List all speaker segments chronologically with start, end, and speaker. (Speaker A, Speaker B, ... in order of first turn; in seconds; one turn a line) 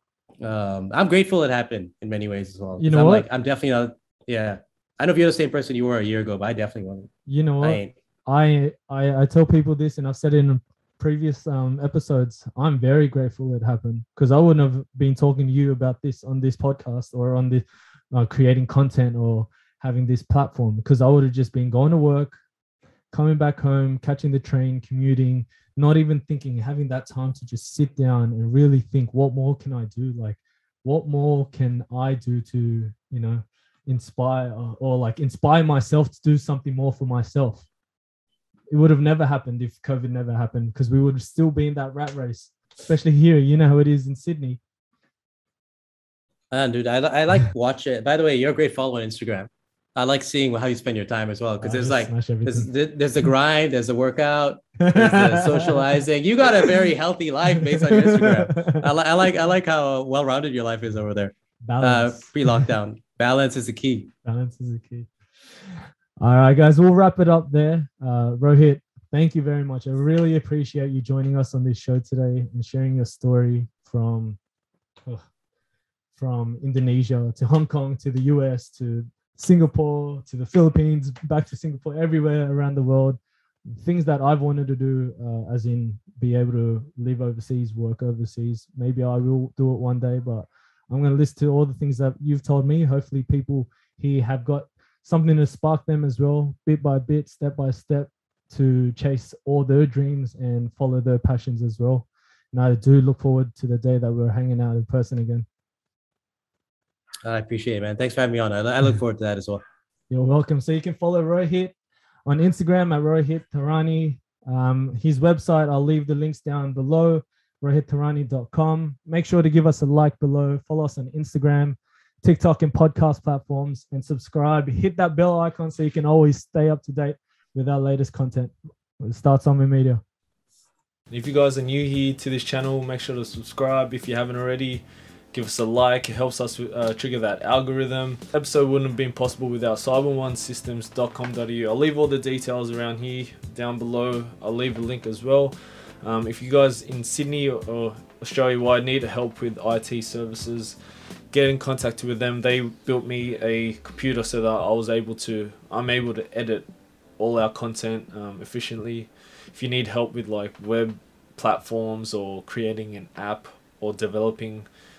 Speaker A: 0.4-7.9
Speaker B: 2.8-3.3
Speaker B: 7.3-22.4
Speaker B: 23.1-37.7
Speaker B: 38.7-44.6
Speaker A: 46.5-64.1
Speaker B: 51.6-52.7
Speaker B: 54.8-55.9
Speaker B: 57.7-58.9
Speaker B: 61.7-62.7
Speaker B: 64.2-74.4
Speaker B: 76.2-105.5
Speaker A: 107.2-109.6
Speaker B: 110.1-111.7
Speaker B: 112.3-130.0
Speaker C: 131.1-150.8
Speaker C: 151.3-164.7